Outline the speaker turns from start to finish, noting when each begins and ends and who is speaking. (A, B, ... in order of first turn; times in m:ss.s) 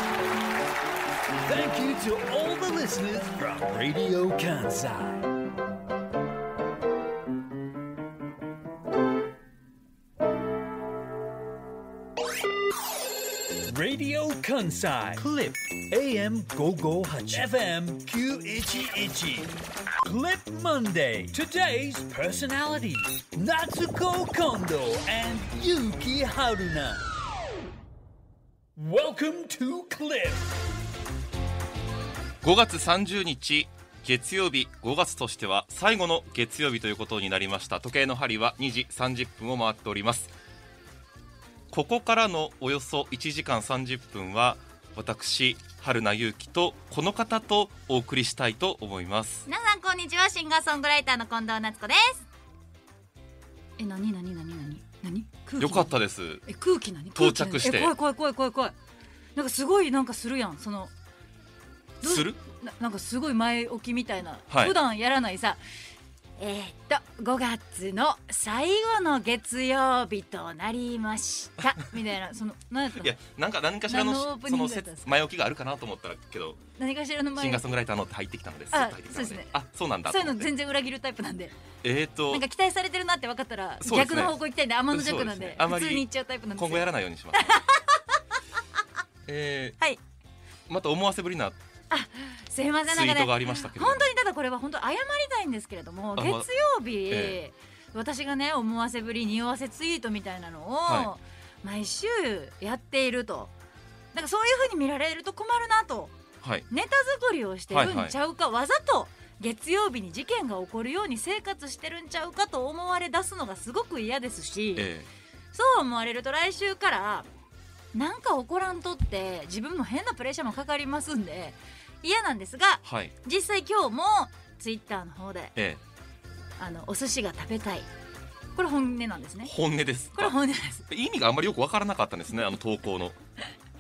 0:01.4-0:05.3 A
0:13.7-0:27.0 A
0:28.8-0:30.4 A
0:32.4-0:40.3 B
0:41.7-0:49.5 B
0:49.5-0:52.2 C
0:53.8-0:58.8 C
0:55.6-0:56.4 B
0:57.1-0:57.9 B
0:59.4-1:00.9 C
1:02.0-1:02.4 B
1:02.0-1:05.6 C
1:04.5-1:04.8 B
1:06.4-1:13.1 C
1:13.0-1:16.6 B
1:13.9-1:15.1 C
1:16.8-1:17.7 C
1:17.4-1:20.5 B
1:18.7-1:19.5 C
1:20.1-1:21.6 C
1:21.8-1:22.4 B
1:22.3-1:28.1 C
1:23.8-1:24.4 B
1:24.9-1:27.5 B
1:29.3-1:29.8 B
1:30.7-1:31.6 B
1:31.9-1:43.5 C
1:32.9-1:34.1 B
1:36.2-1:36.5 B
1:37.1-1:37.4 B
1:44.1-1:46.1 C
1:46.4-1:46.7 B
1:46.7-1:54.9 C
1:47.7-1:48.2 B
1:54.8-1:55.1 B
1:55.5-1:57.3 C
1:57.9-2:05.6 C
2:02.8-2:03.1 B
2:05.6-2:05.8 B
2:06.6-2:07.9 C
2:08.6-2:09.5 C
2:09.4-2:13.2 B
2:10.1-2:10.8 C